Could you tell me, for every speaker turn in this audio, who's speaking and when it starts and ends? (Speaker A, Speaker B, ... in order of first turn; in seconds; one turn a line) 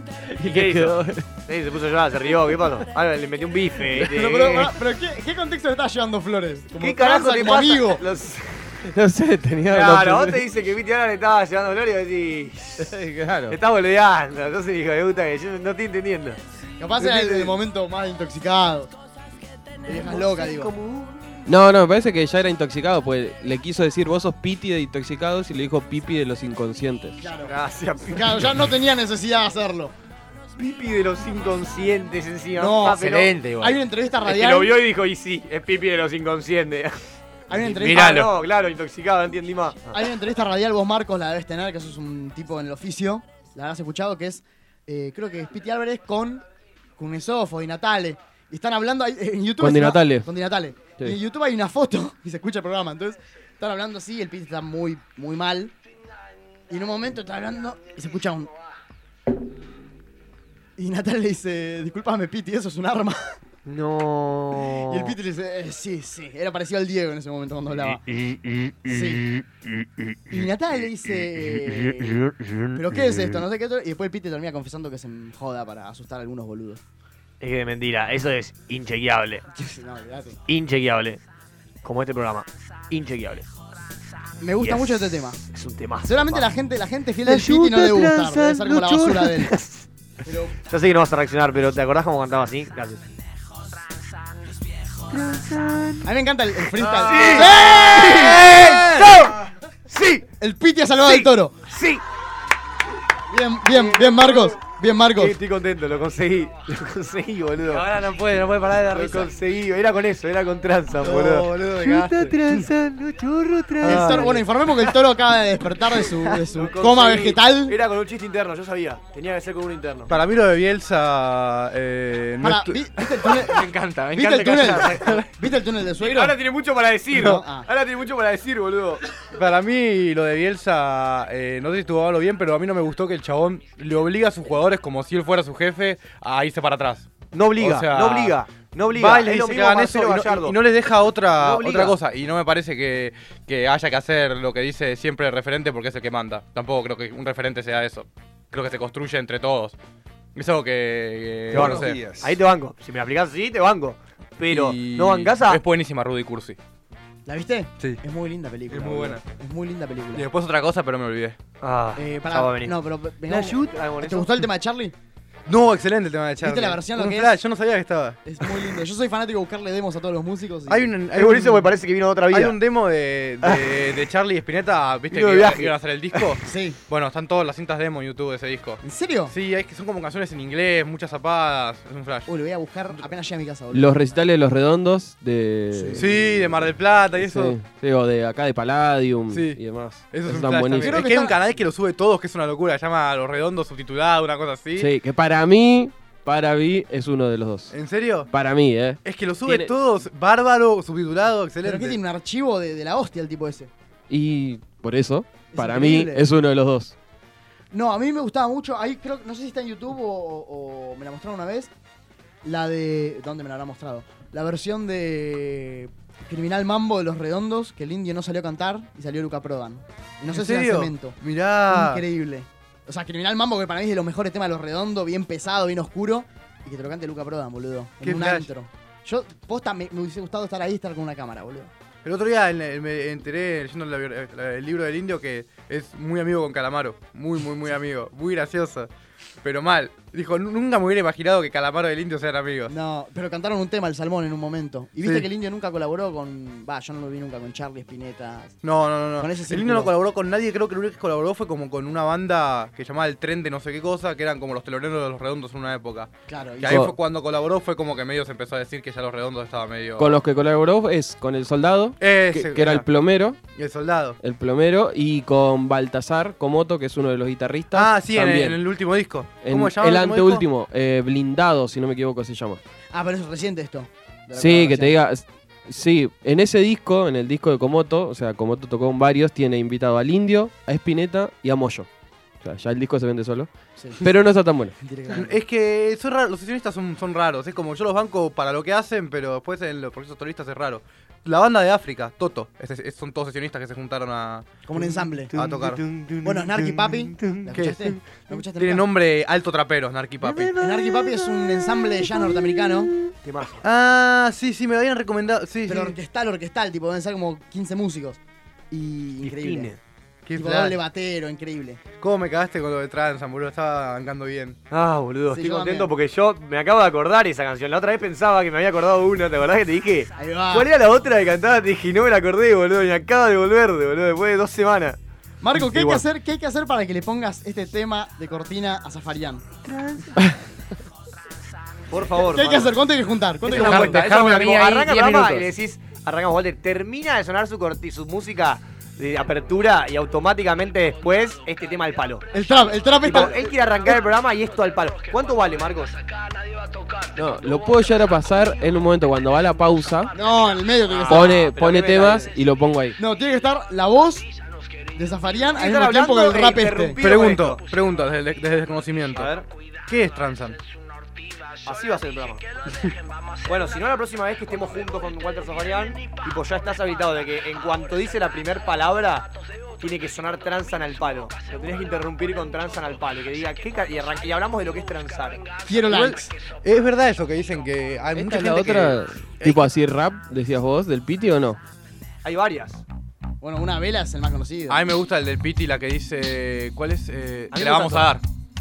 Speaker A: 0.3-1.2
Speaker B: 0.4-4.8
Speaker C: 3.9-8.0
Speaker B: 6.8-8.8
Speaker A: 8.9-10.4
Speaker B: 9.7-12.9
Speaker A: 12.8-13.6
Speaker B: 13.5-16.4
Speaker C: 16.8-18.9
Speaker B: 17.0-17.6
Speaker C: 19.8-20.7
Speaker B: 19.9-21.2
Speaker A: 21.4-27.2
Speaker C: 27.2-27.5
Speaker B: 27.4-28.5
Speaker C: 28.1-29.9
Speaker B: 30.6-33.3
Speaker C: 32.6-34.8
Speaker D: 32.9-33.8
Speaker B: 34.2-36.9
Speaker C: 37.5-38.3
Speaker B: 37.5-40.0
Speaker C: 39.9-46.4
Speaker C: 47.0-55.7
Speaker A: 49.6-50.3
Speaker C: 56.7-58.5
Speaker C: 60.8-63.3
Speaker B: 63.6-65.2
Speaker C: 64.9-68.0
Speaker B: 67.8-70.2
Speaker C: 68.9-69.3
Speaker C: 70.3-76.8
Speaker B: 71.6-73.2
Speaker B: 77.4-79.4
Speaker C: 79.5-80.4
Speaker B: 80.5-81.2
Speaker B: 81.8-83.5
Speaker C: 84.4-85.4
Speaker B: 84.6-86.4
Speaker C: 86.0-89.6
Speaker B: 87.2-89.9
Speaker C: 90.2-90.6
Speaker B: 90.6-93.0
Speaker B: 95.1-96.1
Speaker C: 96.0-98.4
Speaker B: 96.8-100.3
Speaker E: 97.1-97.4
Speaker E: 98.0-99.2
Speaker C: 100.4-101.5
Speaker B: 101.0-102.0
Speaker C: 103.3-105.4
Speaker B: 103.7-104.6
Speaker B: 105.1-107.9
Speaker D: 107.7-109.3
Speaker B: 108.9-114.9
Speaker E: 111.0-112.3
Speaker C: 113.8-117.8
Speaker B: 115.9-120.2
Speaker E: 120.1-122.9
Speaker C: 122.4-126.4
Speaker D: 123.2-125.2
Speaker B: 126.0-129.1
Speaker C: 127.1-127.7
Speaker E: 129.3-138.4
Speaker B: 137.3-140.6
Speaker E: 138.9-149.8
Speaker B: 141.4-142.0
Speaker E: 150.4-152.1
Speaker B: 151.5-155.6
Speaker C: 151.6-151.9
Speaker E: 154.5-156.6
Speaker C: 157.3-160.3
Speaker E: 158.7-159.2
Speaker E: 160.1-161.4
Speaker B: 161.6-164.4
Speaker C: 161.9-164.9
Speaker E: 165.5-168.2
Speaker C: 166.4-167.4
Speaker C: 168.2-170.9
Speaker E: 170.7-171.8
Speaker B: 171.2-172.6
Speaker E: 172.3-182.3
Speaker B: 173.4-173.7
Speaker B: 175.1-176.3
Speaker C: 176.4-176.8
Speaker C: 178.8-179.3
Speaker C: 182.3-184.0
Speaker A: 183.7-186.3
Speaker C: 185.7-186.1
Speaker E: 186.0-187.6
Speaker A: 187.2-191.0
Speaker E: 189.3-194.9
Speaker C: 190.8-191.4
Speaker A: 194.8-197.8
Speaker E: 197.7-198.3
Speaker A: 198.3-199.7
Speaker E: 199.0-202.0
Speaker C: 201.6-203.7
Speaker A: 204.1-206.9
Speaker C: 205.5-206.3
Speaker C: 207.7-211.7
Speaker C: 212.4-231.7
Speaker E: 220.3-222.0
Speaker E: 228.0-228.5
Speaker E: 232.0-238.9
Speaker E: 239.4-242.7
Speaker C: 242.7-248.6
Speaker E: 245.0-245.3
Speaker E: 248.6-256.1
Speaker C: 249.2-249.9
Speaker C: 256.3-256.8
Speaker E: 256.6-260.1
Speaker A: 256.6-256.9
Speaker A: 260.0-263.4
Speaker E: 262.0-262.9
Speaker E: 263.6-264.2
Speaker A: 264.2-268.6
Speaker E: 267.7-270.4
Speaker A: 269.4-272.6
Speaker C: 272.9-274.9
Speaker A: 274.4-281.9
Speaker A: 282.4-283.5
Speaker C: 283.8-284.0
Speaker A: 284.0-284.8
Speaker C: 284.8-285.4
Speaker E: 285.1-294.5
Speaker C: 294.6-295.3
Speaker B: 294.8-297.5
Speaker E: 295.3-295.8
Speaker C: 296.2-298.9
Speaker E: 297.5-300.6
Speaker B: 300.2-302.0
Speaker C: 300.5-302.9
Speaker B: 303.1-303.6
Speaker E: 303.6-305.9
Speaker C: 305.7-308.2
Speaker C: 308.7-309.7
Speaker B: 309.2-309.8
Speaker E: 310.3-310.8
Speaker C: 310.3-311.8
Speaker E: 312.0-314.6
Speaker B: 314.7-325.0
Speaker C: 315.3-315.9
Speaker C: 320.2-320.7
Speaker C: 325.4-329.4
Speaker B: 325.5-326.1
Speaker B: 329.6-330.2
Speaker B: 331.9-332.8
Speaker C: 332.3-334.1
Speaker B: 333.4-342.3
Speaker D: 334.0-335.3
Speaker C: 342.3-344.0
Speaker B: 343.0-346.0
Speaker A: 347.1-350.1
Speaker C: 350.1-351.4
Speaker B: 350.8-352.3
Speaker A: 351.1-353.0
Speaker C: 353.0-354.3
Speaker C: 354.9-357.0
Speaker B: 355.5-357.6
Speaker E: 357.0-360.6
Speaker B: 359.1-359.4
Speaker B: 361.6-362.4
Speaker B: 363.4-375.5
Speaker C: 375.6-376.3
Speaker E: 375.9-379.7
Speaker A: 378.1-381.6
Speaker B: 382.2-382.8
Speaker C: 383.4-384.8
Speaker E: 384.7-388.2
Speaker B: 387.5-388.1